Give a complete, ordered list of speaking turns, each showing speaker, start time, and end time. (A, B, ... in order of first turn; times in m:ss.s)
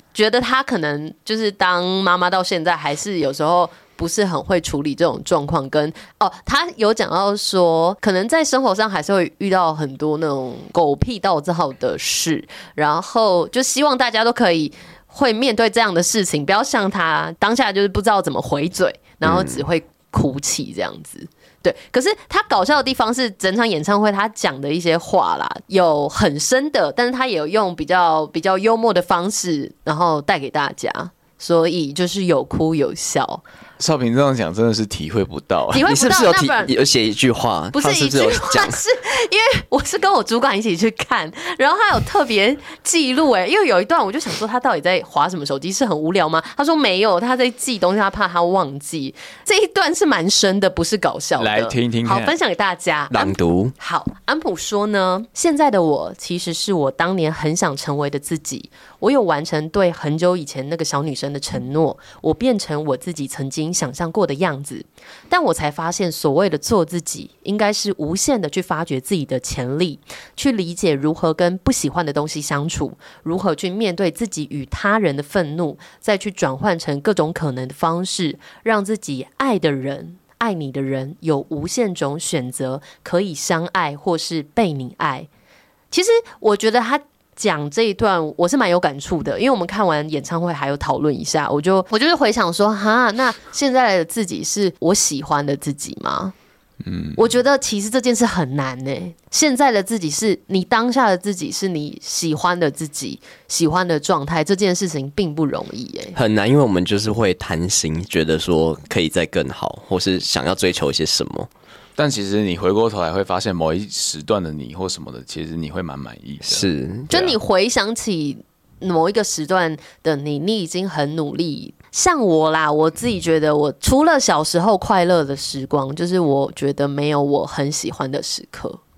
0:00.1-0:33.4 A
0:19.2-0:19.6 B
0:33.8-0:35.8 C
0:35.7-0:36.7 A
0:35.8-0:38.8 B
0:37.7-1:25.3 A
0:51.4-0:52.3 C
0:53.1-0:53.7 B
1:25.9-1:36.3 A
1:36.8-1:37.2 C
1:37.2-1:46.2 A
1:46.2-1:51.5 B
1:52.0-1:57.3 C
1:56.4-1:57.3 B
1:57.1-2:08.8 A